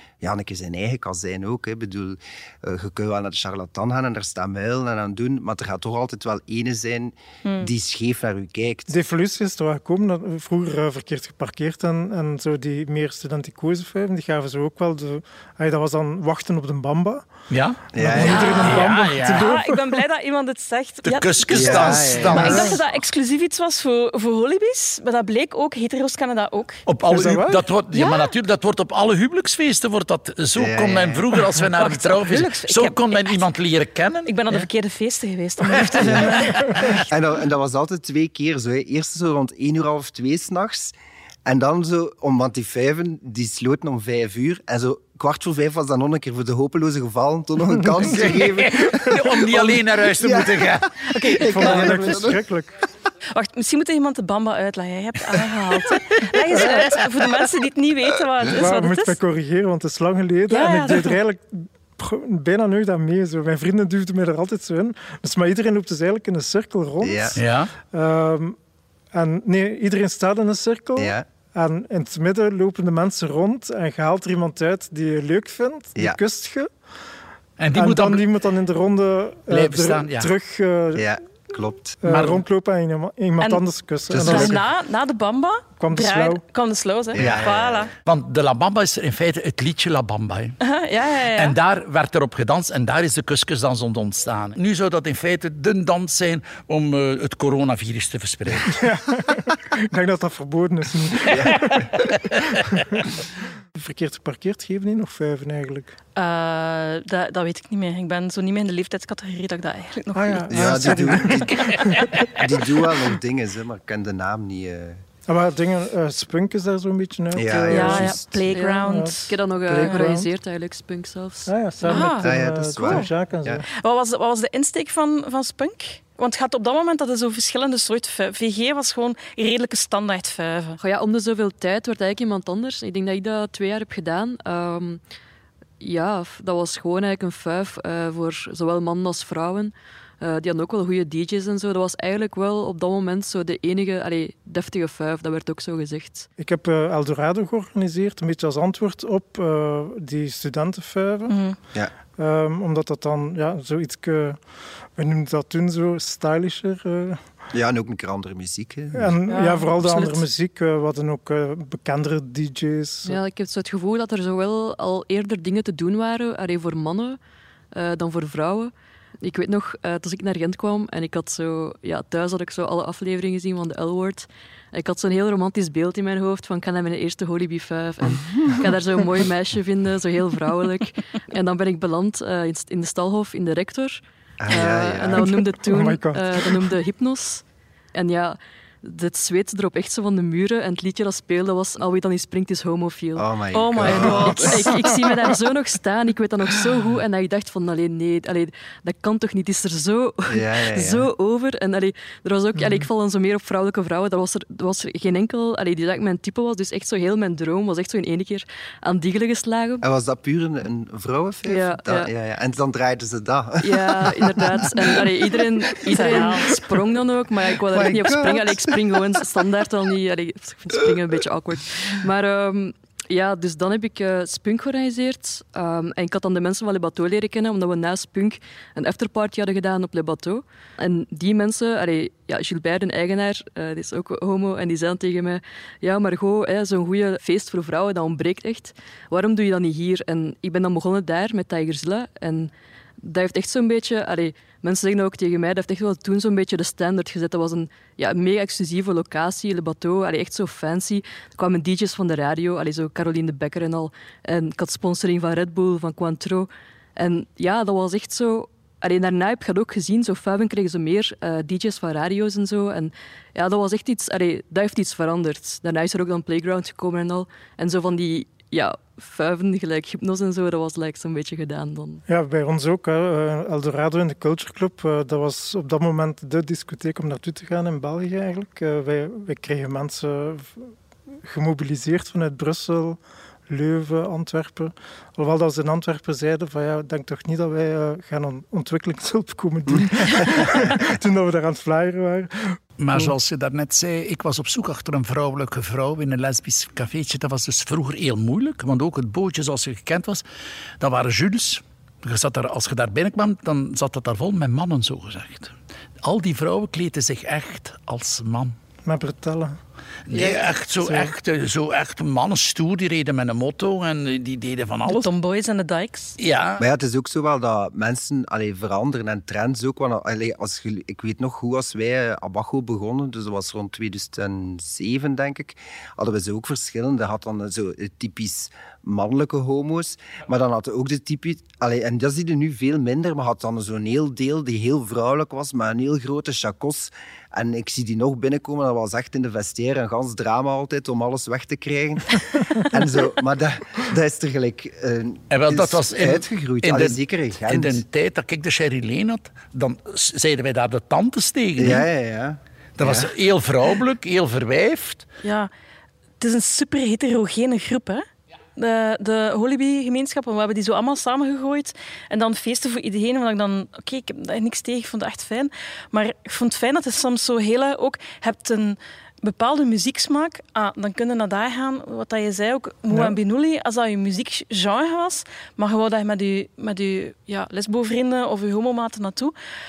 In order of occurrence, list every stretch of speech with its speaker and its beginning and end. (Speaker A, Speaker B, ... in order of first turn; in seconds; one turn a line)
Speaker A: 0.2-8.9
Speaker B: 7.4-7.7
Speaker C: 8.9-17.3
Speaker D: 17.5-19.6
Speaker A: 17.9-18.6
Speaker C: 17.9-20.0
Speaker B: 18.2-26.8
Speaker D: 21.1-22.8
Speaker A: 21.5-22.6
Speaker C: 22.3-22.8
Speaker D: 26.9-34.7
Speaker C: 27.0-27.7
Speaker B: 27.9-28.3
Speaker A: 30.6-31.3
Speaker B: 31.7-33.4
Speaker B: 34.2-37.0
Speaker D: 36.0-36.9
Speaker A: 36.0-40.9
Speaker A: 41.5-50.9
Speaker C: 47.8-48.0
Speaker D: 48.0-51.1
Speaker B: 51.1-52.2
Speaker A: 51.4-52.4
Speaker C: 51.4-52.8
Speaker B: 53.3-59.2
Speaker C: 58.5-67.4
Speaker B: 60.5-61.2
Speaker A: 67.0-67.4
Speaker D: 67.3-67.7
Speaker C: 67.9-68.6
Speaker C: 69.1-76.7
Speaker A: 71.0-71.2
Speaker D: 77.6-78.2
Speaker C: 77.7-81.2
Speaker D: 79.5-80.3
Speaker A: 80.9-82.0
Speaker C: 82.0-84.6
Speaker D: 82.1-82.4
Speaker A: 84.1-84.6
Speaker B: 84.2-87.9
Speaker C: 85.8-86.4
Speaker A: 87.1-87.9
Speaker D: 87.2-87.5
Speaker D: 88.0-90.6
Speaker B: 90.7-91.5
Speaker D: 91.3-98.8
Speaker C: 98.7-101.9
Speaker A: 101.3-102.0
Speaker C: 102.5-103.1
Speaker C: 103.8-105.9
Speaker B: 106.2-111.3
Speaker C: 110.1-112.1
Speaker A: 110.5-115.0
Speaker C: 115.3-120.3
Speaker A: 117.3-118.2
Speaker B: 117.7-119.3
Speaker E: 118.5-121.5
Speaker C: 121.5-123.7
Speaker B: 121.8-123.1
Speaker A: 122.1-123.6
Speaker B: 123.8-130.8
Speaker E: 130.8-135.0
Speaker E: 135.8-146.2
Speaker C: 146.4-151.4
Speaker B: 151.3-151.6
Speaker C: 152.2-157.2
Speaker A: 157.5-159.2
Speaker C: 158.9-163.2
Speaker B: 159.3-160.2
Speaker E: 163.1-167.2
Speaker E: 167.7-187.4
Speaker A: 184.4-185.4
Speaker C: 185.1-186.8
Speaker E: 187.9-193.2
Speaker A: 193.2-194.9
Speaker B: 193.5-194.8
Speaker E: 193.8-209.8
Speaker A: 200.3-201.1
Speaker A: 209.8-216.6
Speaker E: 211.5-212.1
Speaker E: 213.6-272.0
Speaker B: 215.9-216.6
Speaker A: 217.6-219.2
Speaker C: 272.1-280.7
Speaker C: 281.2-293.1
Speaker D: 292.8-300.2
Speaker D: 300.8-308.5
Speaker C: 308.8-309.6
Speaker D: 310.1-315.1
Speaker B: 310.1-310.4
Speaker C: 310.8-311.1
Speaker B: 314.9-316.1
Speaker D: 316.2-316.6
Speaker A: 316.6-347.8
Speaker D: 345.3-351.9
Speaker A: 351.6-353.1
Speaker D: 352.8-355.0
Speaker B: 355.2-355.5
Speaker B: 356.2-358.0
Speaker B: 358.6-379.3
Speaker C: 372.9-373.1